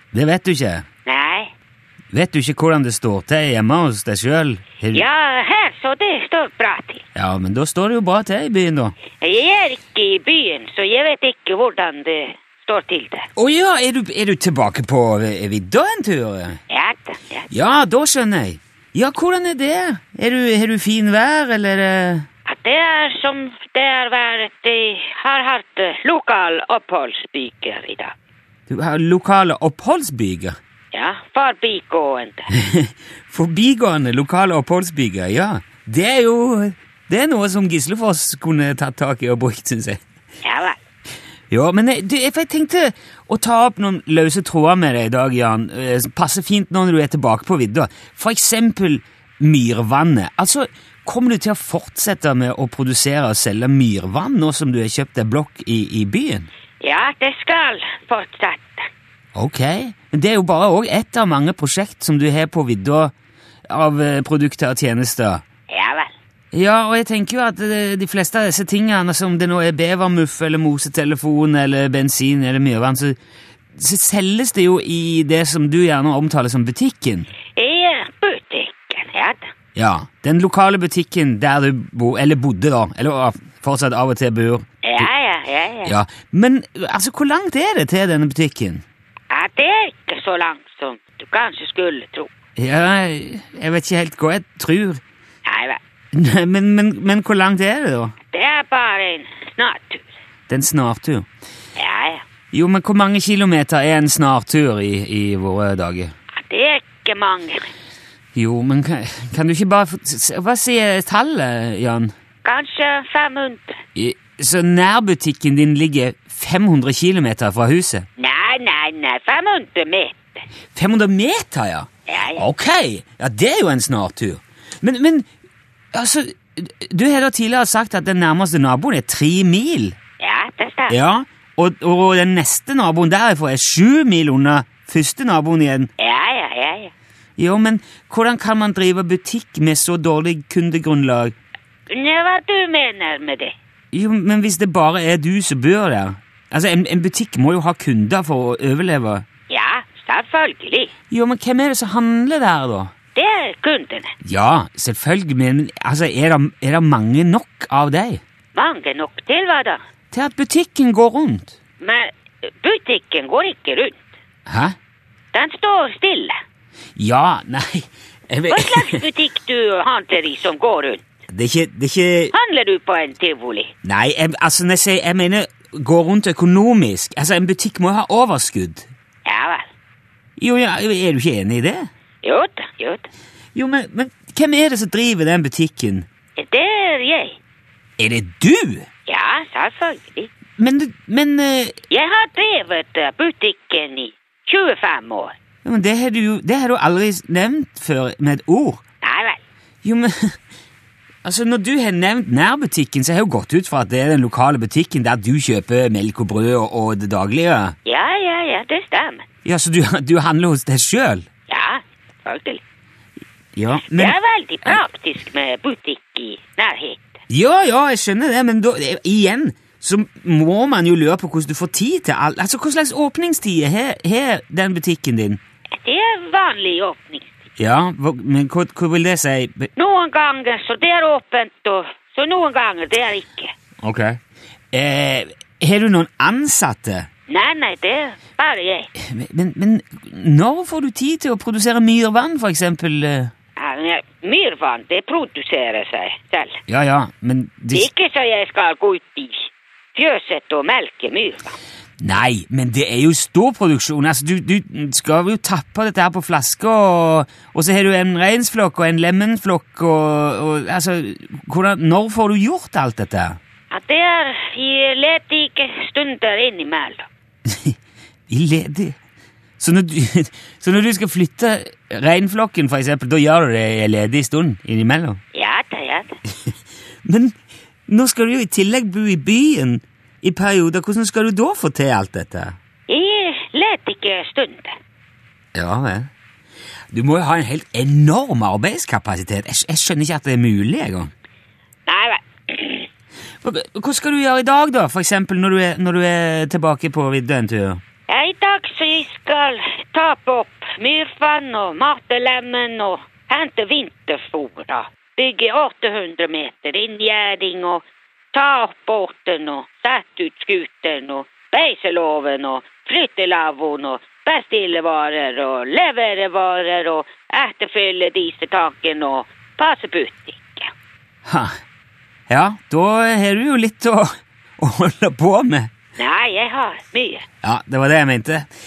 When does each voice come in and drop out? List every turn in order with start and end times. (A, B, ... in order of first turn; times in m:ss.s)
0:00.1-0:00.8 A
0:01.1-0:01.5 B
0:02.1-0:05.0 A
0:04.9-0:07.0 B
0:07.2-0:08.9 A
0:09.2-0:13.3 B
0:13.4-0:16.6 A
0:16.7-0:17.5 B
0:17.5-0:22.3 A
0:22.5-0:28.1 B
0:28.7-0:30.6 A
0:30.9-0:32.5 B
0:32.5-0:40.0 A
0:40.4-0:40.8 B
0:41.5-0:56.5 A
0:56.8-0:58.9 B
0:59.4-1:03.1 A
1:03.7-1:05.4 A
1:05.7-1:06.1 B
1:06.5-1:13.2 A
1:13.8-1:17.3 A
1:17.6-1:19.5 B
1:19.8-1:25.1 A
1:24.8-1:26.0 B
1:25.8-1:28.8 A
1:29.3-1:32.3 B
1:32.6-1:35.0 A
1:35.4-1:35.8 B
1:36.1-1:38.1 A
1:38.3-1:40.1 B
1:40.5-1:41.3 A
1:41.8-1:42.2 B
1:42.5-1:46.1 A
1:46.4-1:47.7 B
1:48.4-1:52.1 A
1:52.4-1:53.8 B
1:54.0-1:58.1 A
1:58.2-2:00.4 B
2:00.7-2:05.3 A
2:02.1-2:02.4 B
2:05.9-2:10.0 A
2:10.2-2:11.0 B
2:10.9-2:15.9 A
2:16.0-2:16.9 B
2:17.4-2:21.3 A
2:21.9-2:23.6 B
2:23.9-2:29.2 A
2:29.5-2:30.9 B
2:31.1-2:32.9 A
2:33.2-2:34.2 B
2:34.2-2:38.2 A
2:38.6-2:39.8 B
2:40.1-2:41.6 A
2:41.8-2:42.1 B
2:42.6-2:44.0 B
2:44.5-2:44.8 A
2:45.3-2:46.4 B
2:47.0-2:49.0 A
2:48.5-2:51.0 B
2:51.3-2:52.3 A
2:52.3-2:53.7 B
2:53.8-2:58.9 A
2:59.3-2:59.7 B
3:00.4-3:01.9 A
3:02.2-3:03.1 B
3:03.6-3:06.1 A
3:06.4-3:07.4 B
3:08.0-3:08.9 A
3:09.1-3:10.3 B
3:10.6-3:11.8 A
3:11.9-3:15.4 B
3:15.6-3:18.8 A
3:19.0-3:19.4 B
3:19.8-3:20.4 A
3:21.2-3:27.8 A
3:27.9-3:29.2 B
3:29.4-3:31.3 A
3:31.5-3:32.6 B
3:33.6-3:34.2 A
3:33.9-3:37.2 B
3:37.3-3:45.4 A
3:45.7-3:47.3 B
3:47.6-3:49.7 A
3:49.8-3:53.5 B
3:53.8-3:54.2 A
3:54.7-3:57.1 A
3:57.3-3:58.9 B
3:59.0-4:03.3 A
4:03.6-4:06.6 B
4:06.7-4:07.9 A
4:07.7-4:11.6 B
4:12.0-4:23.4 A
4:23.7-4:27.1 B
4:27.5-4:27.8 A
4:28.3-4:29.0 A
4:29.6-4:35.2 A
4:35.3-4:36.2 B
4:37.0-4:37.4 A
4:37.9-4:42.6 A
4:42.9-4:44.8 B
4:45.5-4:46.1 A
4:46.9-4:51.1 A
4:51.9-4:52.9 B
4:53.4-4:57.8 A
4:58.1-5:20.7 B
5:21.3-5:21.5 A
5:22.3-5:25.7 A
5:26.0-5:27.3 B
5:27.4-5:28.5 A